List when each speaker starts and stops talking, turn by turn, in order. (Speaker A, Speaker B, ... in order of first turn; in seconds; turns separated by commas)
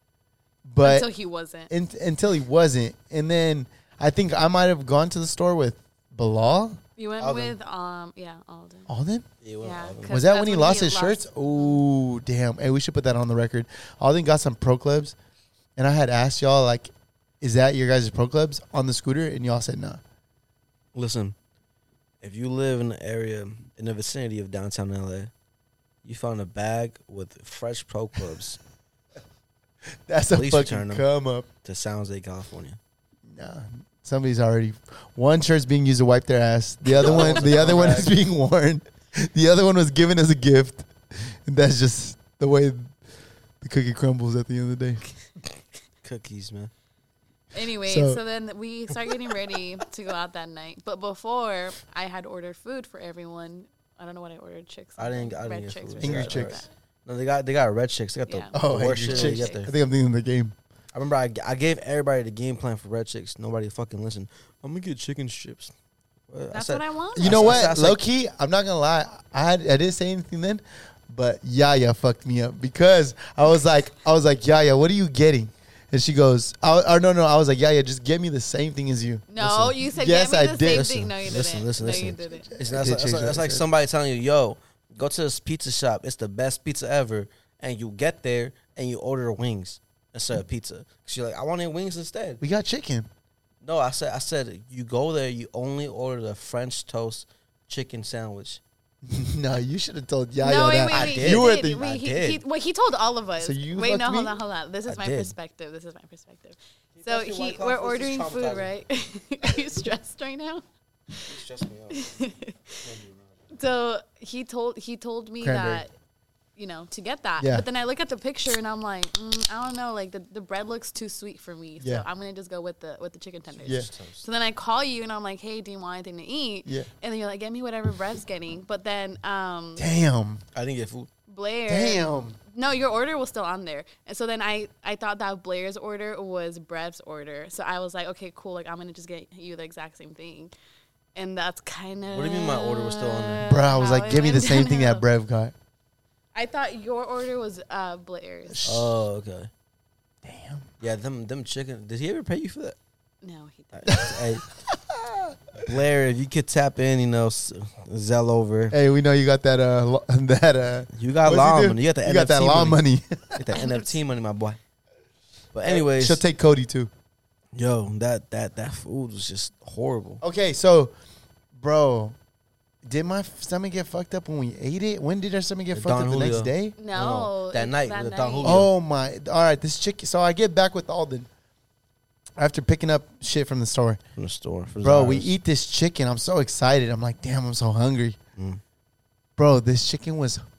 Speaker A: 0.7-1.1, Speaker B: 0.8-1.7, Speaker A: 1.7-7.5, Speaker B: 7.0-8.9, Speaker A: 8.9-9.3, Speaker C: 9.4-10.2, Speaker B: 9.6-11.9, Speaker A: 10.1-15.2, Speaker A: 15.8-16.9, Speaker A: 17.4-20.0, Speaker C: 20.9-21.4, Speaker C: 22.2-25.3, Speaker C: 26.0-28.6, Speaker A: 30.1-31.5, Speaker C: 30.3-31.1, Speaker C: 31.6-32.8, Speaker A: 33.3-42.9, Speaker C: 37.0-38.1, Speaker A: 43.6-45.1, Speaker C: 46.0-46.7, Speaker B: 47.5-56.7, Speaker A: 47.9-48.2, Speaker C: 55.0-59.7, Speaker A: 56.0-56.6, Speaker B: 58.3-59.7, Speaker A: 58.5-60.5, Speaker C: 60.9-65.7, Speaker C: 66.3-68.0, Speaker B: 66.5-67.7, Speaker A: 67.2-80.9, Speaker B: 79.3-82.5, Speaker C: 80.7-92.4, Speaker A: 81.8-83.7, Speaker A: 92.4-93.1, Speaker C: 93.6-98.6, Speaker A: 99.1-101.8, Speaker B: 100.4-111.3, Speaker C: 100.9-102.4, Speaker A: 103.4-104.3, Speaker C: 104.9-105.3, Speaker C: 107.0-108.7, Speaker C: 111.2-112.1, Speaker B: 111.9-112.9, Speaker C: 112.8-113.4, Speaker B: 113.5-115.9, Speaker A: 115.4-115.8, Speaker B: 116.6-129.9, Speaker A: 117.4-117.7, Speaker C: 123.5-124.2, Speaker A: 129.8-130.4, Speaker C: 130.6-131.1, Speaker B: 131.3-140.5, Speaker A: 131.7-132.4, Speaker B: 141.2-145.1, Speaker C: 142.1-143.5, Speaker A: 143.5-145.5, Speaker B: 146.3-148.6, Speaker A: 148.5-149.0, Speaker C: 148.6-149.5, Speaker A: 150.2-150.7, Speaker C: 150.8-152.8, Speaker B: 153.2-154.0, Speaker C: 153.7-154.4, Speaker A: 153.9-154.2, Speaker A: 154.7-155.3, Speaker C: 155.6-158.8, Speaker A: 158.7-163.4, Speaker C: 160.9-162.8, Speaker C: 163.4-164.6, Speaker B: 163.5-163.9, Speaker C: 165.5-166.2, Speaker A: 165.7-166.9, Speaker C: 167.5-170.2, Speaker A: 170.2-170.9, Speaker A: 171.6-172.2, Speaker A: 172.8-176.8, Speaker C: 175.7-178.7, Speaker B: 176.8-178.6, Speaker A: 178.4-181.3, Speaker A: 182.4-184.0, Speaker C: 184.2-185.3, Speaker A: 184.8-188.2, Speaker C: 188.4-188.6, Speaker A: 189.4-190.4